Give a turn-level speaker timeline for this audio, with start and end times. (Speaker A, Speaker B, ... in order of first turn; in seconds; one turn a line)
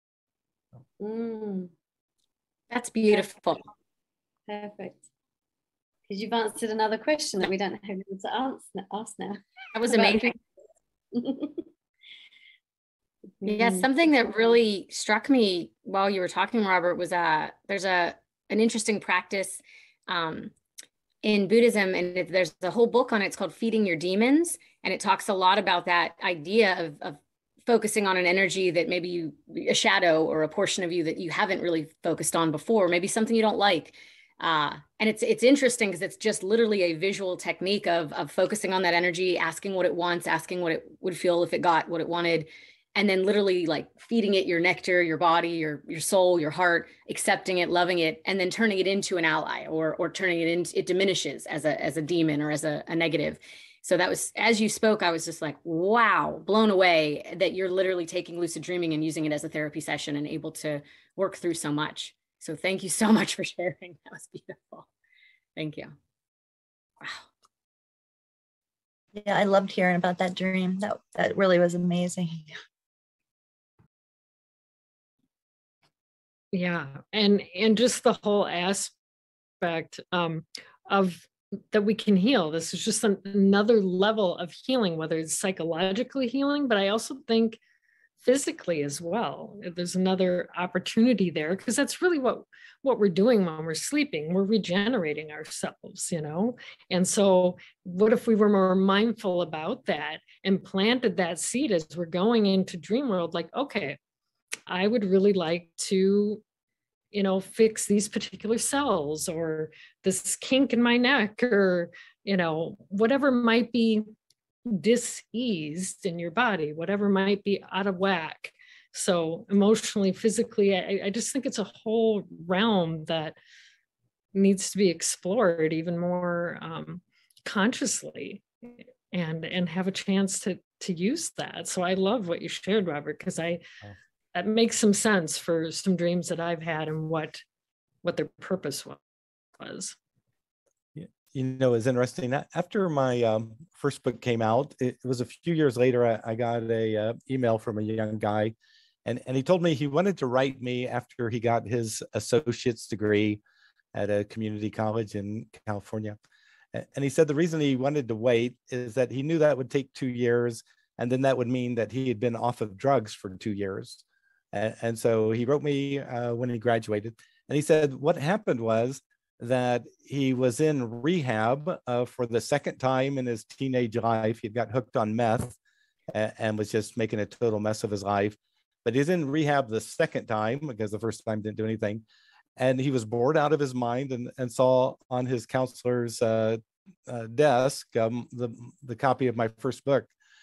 Speaker A: 1.0-1.7
Speaker B: 2.7-3.6
Speaker A: 4.5-5.1
Speaker A: 6.1-10.3
Speaker B: 9.8-10.4
Speaker A: 11.1-11.7
Speaker A: 13.4-13.9
Speaker B: 13.4-20.5
Speaker B: 21.2-64.9
Speaker B: 65.6-66.0
Speaker B: 67.0-67.3
Speaker C: 69.2-72.5
Speaker D: 76.5-78.9
Speaker D: 79.6-87.6
Speaker D: 88.2-104.0
Speaker D: 104.7-106.4
Speaker D: 107.1-114.1
Speaker D: 114.7-123.4
Speaker D: 124.3-133.6
Speaker D: 134.3-137.4
Speaker D: 138.0-139.0
Speaker D: 139.6-140.0
Speaker E: 140.9-153.4
Speaker E: 153.9-156.2
Speaker E: 156.7-182.0
Speaker E: 182.6-190.1